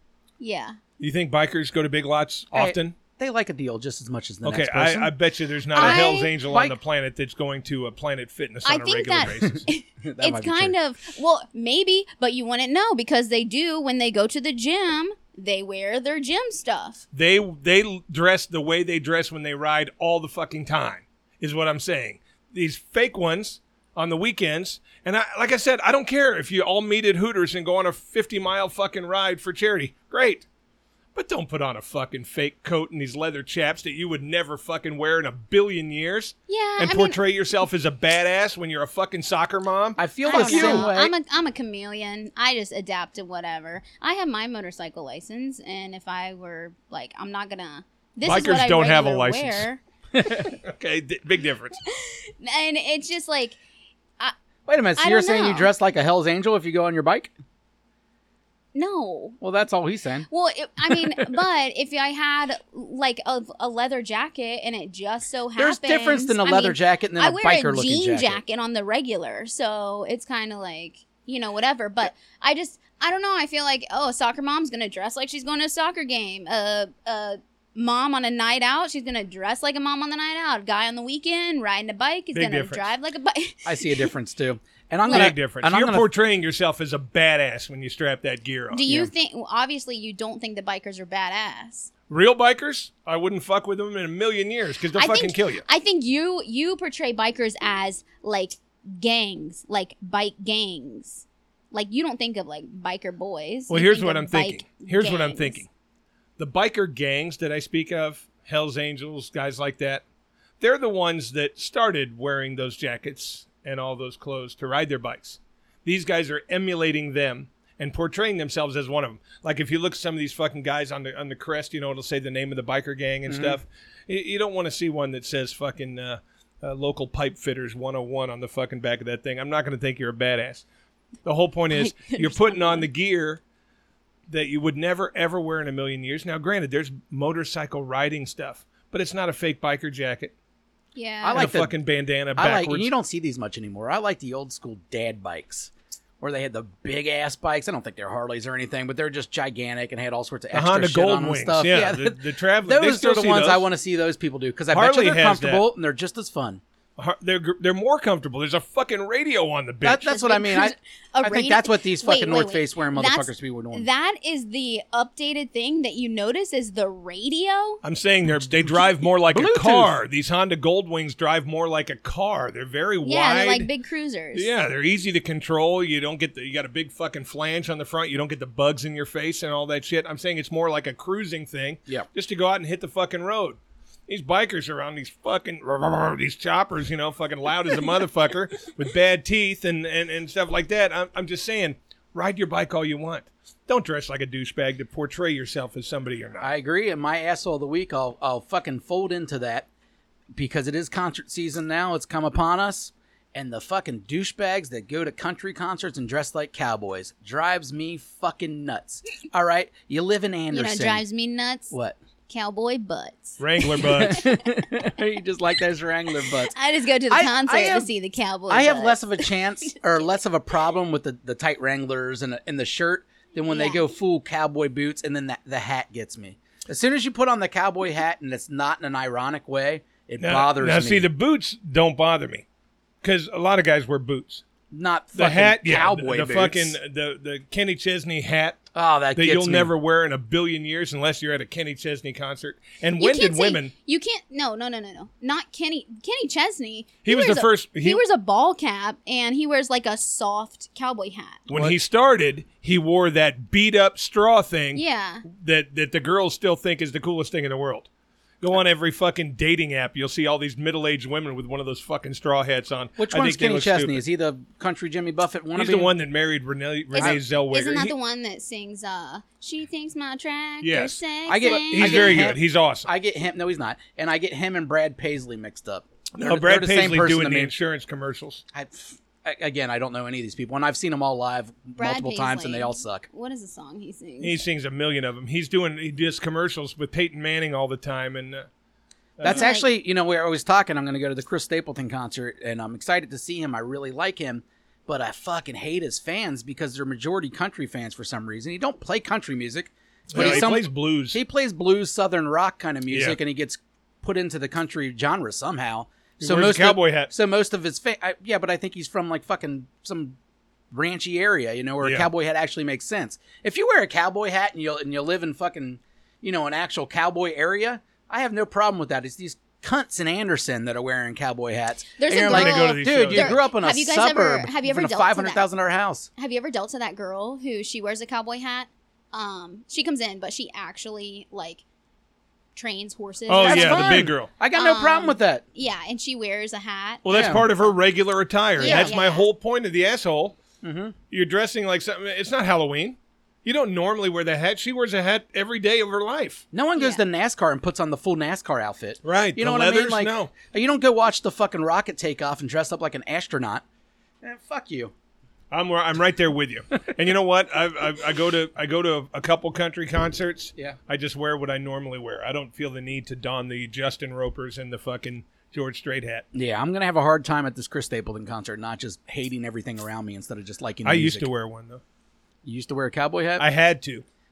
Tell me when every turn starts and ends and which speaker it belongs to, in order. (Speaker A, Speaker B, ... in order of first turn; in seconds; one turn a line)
Speaker A: 0.4-0.8
Speaker B: 1.0-3.0
Speaker C: 2.5-5.1
Speaker B: 4.4-9.7
Speaker C: 5.7-6.8
Speaker A: 5.8-6.3
Speaker A: 8.7-17.1
Speaker C: 10.0-10.8
Speaker B: 17.1-30.5
Speaker B: 31.1-40.9
Speaker A: 36.5-37.2
Speaker C: 40.0-41.1
Speaker A: 40.2-49.8
Speaker B: 48.2-49.7
Speaker C: 50.1-50.5
Speaker B: 50.4-51.8
Speaker A: 51.9-53.6
Speaker C: 54.7-57.3
Speaker A: 55.0-55.7
Speaker A: 58.7-59.4
Speaker C: 59.4-60.3
Speaker A: 60.3-84.1
Speaker C: 65.6-68.4
Speaker B: 82.3-82.9
Speaker C: 83.7-86.1
Speaker B: 85.1-89.1
Speaker A: 88.7-91.9
Speaker B: 92.1-95.6
Speaker A: 95.0-105.6
Speaker B: 103.7-105.7
Speaker B: 106.4-110.0
Speaker B: 110.6-130.7
Speaker C: 123.3-123.6
Speaker B: 131.2-133.4
Speaker A: 131.7-132.8
Speaker B: 134.3-140.3
Speaker A: 140.9-141.5
Speaker C: 141.2-141.8
Speaker B: 141.3-142.9
Speaker C: 142.4-156.6
Speaker B: 150.5-153.7
Speaker B: 154.7-155.7
Speaker B: 157.0-160.1
Speaker C: 159.8-163.9
Speaker A: 160.1-167.8
Speaker B: 167.8-173.7
Speaker C: 168.4-169.9
Speaker A: 173.0-174.5
Speaker B: 174.3-196.5
Speaker C: 196.4-199.7
Speaker C: 200.3-211.0
Speaker A: 210.5-211.7
Speaker C: 211.7-212.0
Speaker A: 212.3-213.4
Speaker B: 213.4-214.4
Speaker C: 213.6-216.5
Speaker A: 216.5-219.8
Speaker C: 217.1-217.9
Speaker C: 218.5-231.1
Speaker A: 223.5-223.8
Speaker B: 230.2-232.4
Speaker B: 233.0-234.4
Speaker C: 234.7-236.8
Speaker B: 235.2-238.6
Speaker C: 238.8-239.7
Speaker B: 239.2-243.7
Speaker A: 243.0-251.5
Speaker B: 247.1-248.0
Speaker B: 251.5-257.9
Speaker C: 251.5-251.8
Speaker A: 254.8-255.2
Speaker B: 258.4-264.0
Speaker C: 263.0-265.9
Speaker B: 265.6-267.9
Speaker A: 266.9-272.2
Speaker C: 266.9-267.2
Speaker B: 270.6-272.9
Speaker C: 271.3-277.5
Speaker B: 276.1-278.4
Speaker C: 278.5-283.1
Speaker A: 281.8-284.4
Speaker B: 284.2-288.5
Speaker B: 289.2-289.5
Speaker C: 289.2-310.2
Speaker A: 289.2-289.7
Speaker B: 300.1-301.2
Speaker B: 302.9-303.2
Speaker B: 306.2-307.1
Speaker C: 310.7-326.1
Speaker B: 311.8-312.1
Speaker A: 322.0-325.4
Speaker B: 322.2-323.4
Speaker A: 326.2-331.6
Speaker A: 332.6-337.7
Speaker B: 333.3-334.3
Speaker C: 333.4-335.4
Speaker B: 337.0-340.4
Speaker C: 337.1-337.4
Speaker A: 338.6-339.3
Speaker C: 338.6-338.9
Speaker C: 340.6-340.9
Speaker B: 341.1-346.4
Speaker C: 346.5-353.6
Speaker B: 349.0-350.3
Speaker C: 354.2-354.9
Speaker B: 355.5-366.2
Speaker C: 366.3-371.3
Speaker B: 370.9-371.8
Speaker C: 372.4-373.5
Speaker B: 373.4-374.1